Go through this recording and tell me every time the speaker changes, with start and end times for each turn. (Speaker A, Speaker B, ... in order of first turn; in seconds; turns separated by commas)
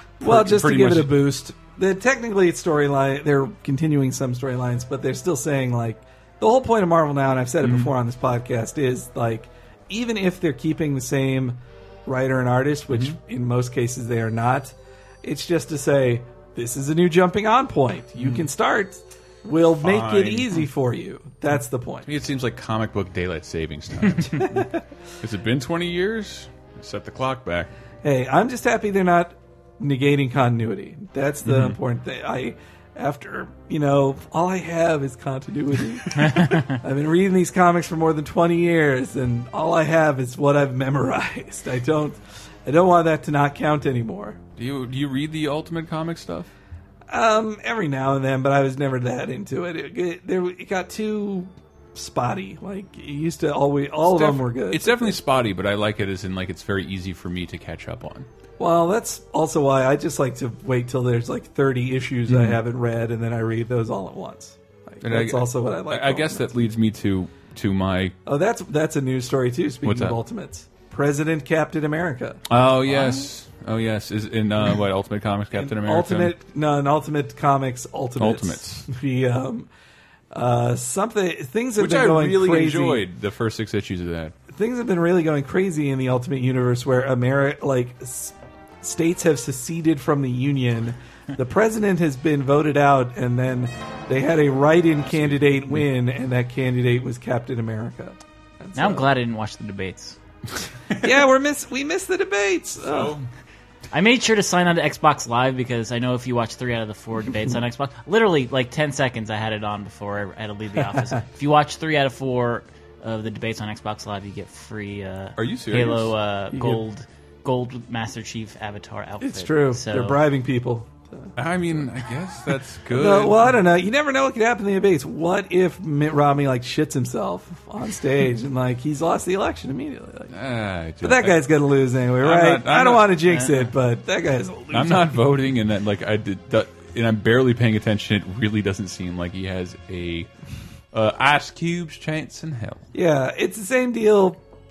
Speaker A: 0.2-1.2, Speaker B: 0.2-22.1, Speaker A: 7.6-7.9, Speaker A: 12.9-13.2, Speaker A: 18.2-18.5, Speaker A: 19.8-20.6, Speaker A: 22.1-27.7, Speaker B: 24.4-24.7, Speaker B: 28.0-44.4, Speaker A: 31.4-31.8, Speaker A: 44.6-46.5, Speaker B: 47.1-55.2, Speaker A: 54.0-58.3, Speaker B: 58.6-66.7, Speaker A: 62.3-62.6, Speaker A: 65.0-68.2, Speaker B: 68.2-73.2, Speaker A: 69.8-70.2, Speaker A: 72.5-76.3, Speaker B: 75.5-79.7, Speaker A: 78.2-78.9, Speaker B: 80.3-83.1, Speaker A: 81.8-84.3, Speaker B: 84.5-99.1, Speaker A: 95.1-95.8, Speaker C: 98.8-100.2, Speaker A: 100.9-101.2, Speaker B: 101.0-103.2, Speaker A: 102.9-103.3, Speaker C: 103.9-120.2, Speaker A: 115.4-116.1, Speaker B: 116.5-116.8, Speaker B: 119.2-121.8, Speaker A: 121.4-123.5, Speaker B: 122.9-130.3, Speaker A: 130.3-131.4, Speaker B: 131.0-135.3, Speaker A: 132.2-133.2, Speaker C: 133.3-133.7, Speaker A: 134.7-140.3, Speaker A: 140.9-142.9, Speaker B: 142.9-144.4